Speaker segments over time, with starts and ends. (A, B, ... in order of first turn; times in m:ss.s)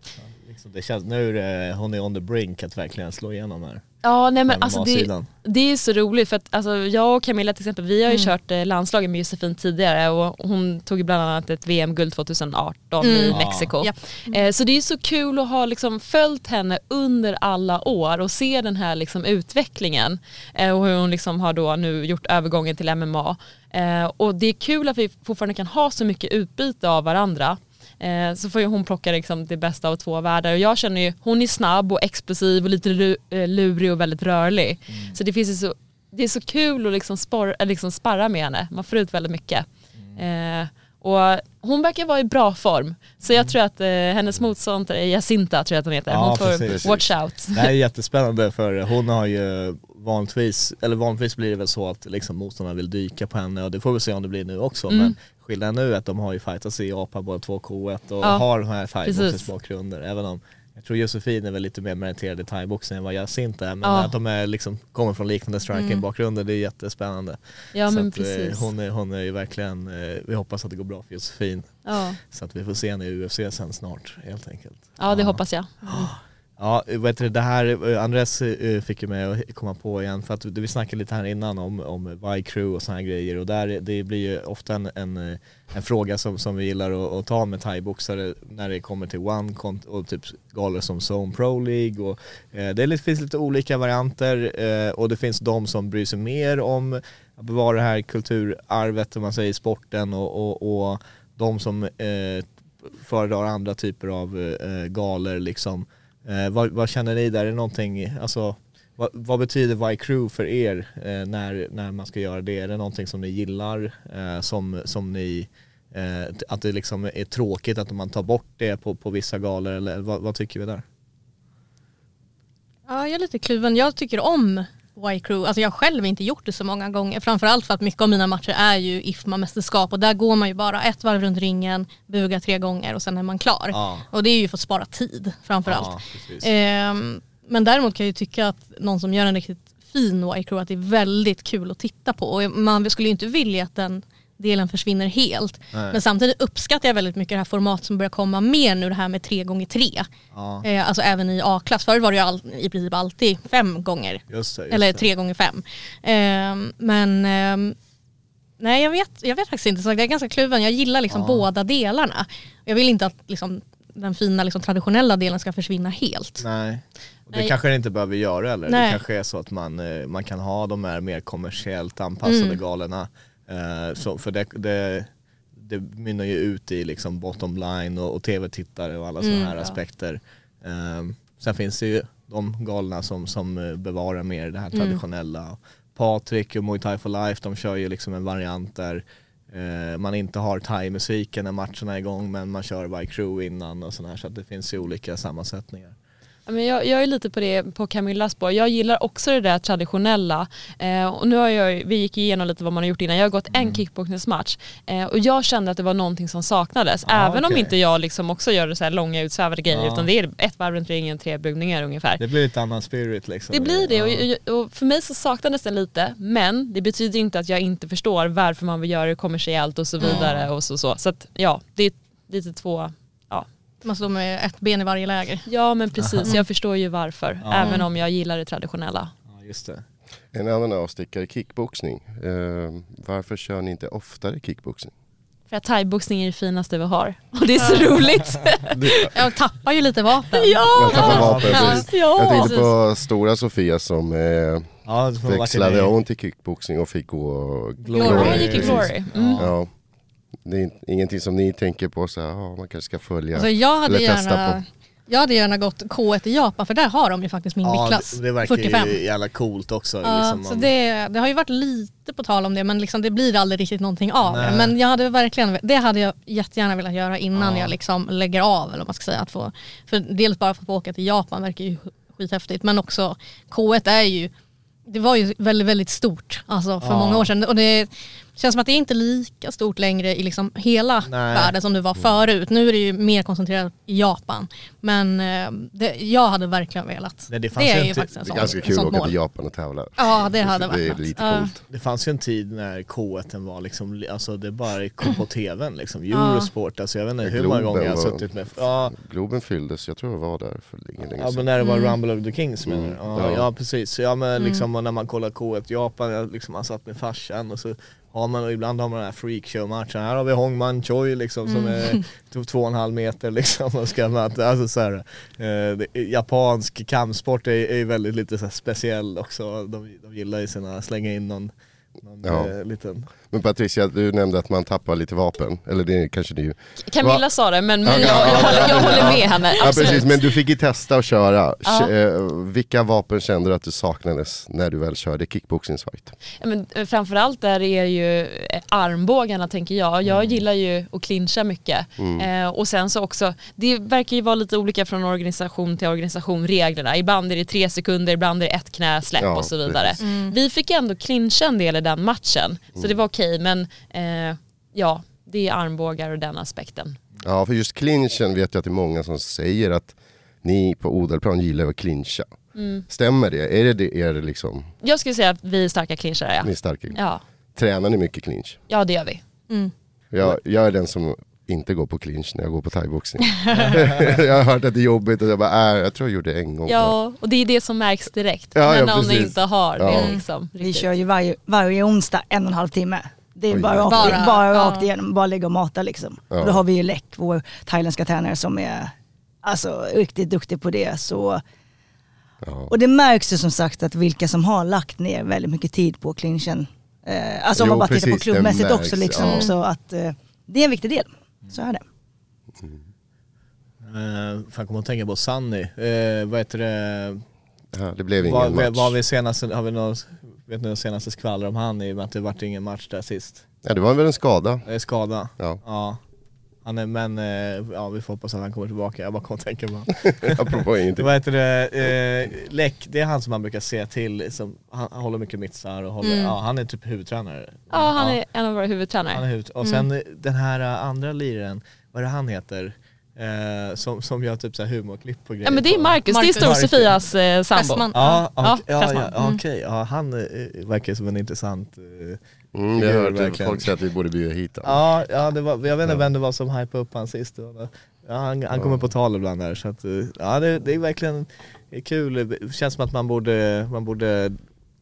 0:00.2-0:03.8 A
0:04.0-0:47.7 B
0:04.5-0:05.3 A
0:08.1-0:08.3 C
0:13.0-0:14.4 C
0:13.3-0:13.7 A
0:34.9-0:35.2 A
0:46.1-2:00.8 A
0:46.7-0:47.1 D
0:54.9-0:55.2 B
0:59.0-0:59.4 B
1:03.8-1:04.1 B
1:07.7-1:08.7 B
1:11.9-1:12.2 B
1:15.0-1:16.1 B
2:02.9-2:30.1 C
2:13.7-2:14.0 A
2:15.6-2:16.5 A
2:25.7-2:26.0 A
2:30.3-2:30.6 A
2:30.6-2:37.8 C
2:34.3-2:35.1 A
2:38.6-2:46.4 C
2:41.1-2:41.4 A
2:46.4-3:16.0 A
2:48.7-2:49.0 C
2:52.2-2:52.6 C
2:59.2-2:59.7 C
3:04.7-3:05.0 C
3:16.5-3:32.2 B
3:23.5-3:23.8 A
3:27.1-3:27.7 A
3:29.7-3:30.1 A
3:32.2-3:34.3 A
3:33.5-3:43.5 B
3:40.0-3:40.2 C
3:40.1-3:40.5 A
3:43.8-3:45.5 C
3:45.5-3:49.1 B
3:46.0-3:46.3 A
3:47.4-3:47.8 A
3:47.6-3:47.8 C
3:49.3-3:49.8 A
3:50.3-3:54.9 D
3:55.5-3:59.1 B
3:57.6-3:57.9 C
3:58.8-3:59.1 D
3:59.0-4:02.7 C
4:00.3-4:02.6 B
4:00.7-4:09.7 D
4:01.0-4:01.8 A
4:04.9-4:05.9 A
4:07.8-4:09.5 A
4:08.0-4:09.4 B
4:08.0-4:08.5 C
4:10.4-4:14.6 D
4:13.3-4:19.0 C
4:17.6-4:20.7 A
4:20.0-4:34.3 C
4:24.2-4:24.7 A
4:27.4-4:27.8 A
4:34.9-4:49.2 C
4:36.8-4:37.3 A
4:41.1-4:41.5 A
4:47.3-4:48.5 A
4:48.3-4:51.6 D
4:50.0-4:51.5 C
4:51.7-4:58.9 A
4:56.1-4:56.5 C
4:57.2-4:58.3 D
4:58.9-5:01.5 D
5:01.2-5:23.1 A
5:01.6-5:01.9 C
5:02.6-5:03.5 D
5:04.4-5:04.6 C
5:11.5-5:12.0 C
5:22.2-5:22.5 D
5:23.3-5:27.2 D
5:26.9-5:30.3 B
5:27.8-5:36.1 D
5:28.0-5:30.0 A
5:31.6-5:31.9 B
5:36.4-5:57.0 B
5:40.0-5:40.4 A
5:42.0-5:42.3 D
5:49.2-5:50.0 D
5:50.0-5:50.4 C
5:57.2-6:02.4 D
6:02.6-6:02.8 B
6:02.9-6:04.7 D
6:04.8-6:07.2 B
6:06.4-6:07.0 D
6:07.6-6:08.6 D
6:08.7-6:09.2 B
6:10.1-6:17.0 D
6:13.4-6:13.8 C
6:13.6-6:14.1 A
6:16.7-6:20.9 B
6:18.6-6:20.2 D
6:19.9-6:20.2 C
6:20.6-6:28.9 E
6:23.5-6:24.2 D
6:23.9-6:24.9 C
6:26.3-6:26.6 D
6:29.4-6:31.4 E
6:32.4-6:32.7 D
6:32.7-6:41.8 E
6:37.6-6:39.5 D
6:39.2-6:39.5 C
6:43.9-6:47.2 A
6:47.7-6:49.0 D
6:48.2-6:53.4 A
6:53.6-6:54.6 D
6:54.7-6:56.0 A
6:56.6-7:08.2 A
7:00.2-7:01.1 D
7:06.0-7:06.4 C
7:07.7-7:09.8 B
7:09.1-7:17.0 A
7:15.4-7:19.2 B
7:16.1-7:16.6 C
7:17.5-7:18.2 C
7:17.9-7:22.2 A
7:22.5-7:24.8 D
7:22.8-7:23.7 A
7:24.6-7:34.4 A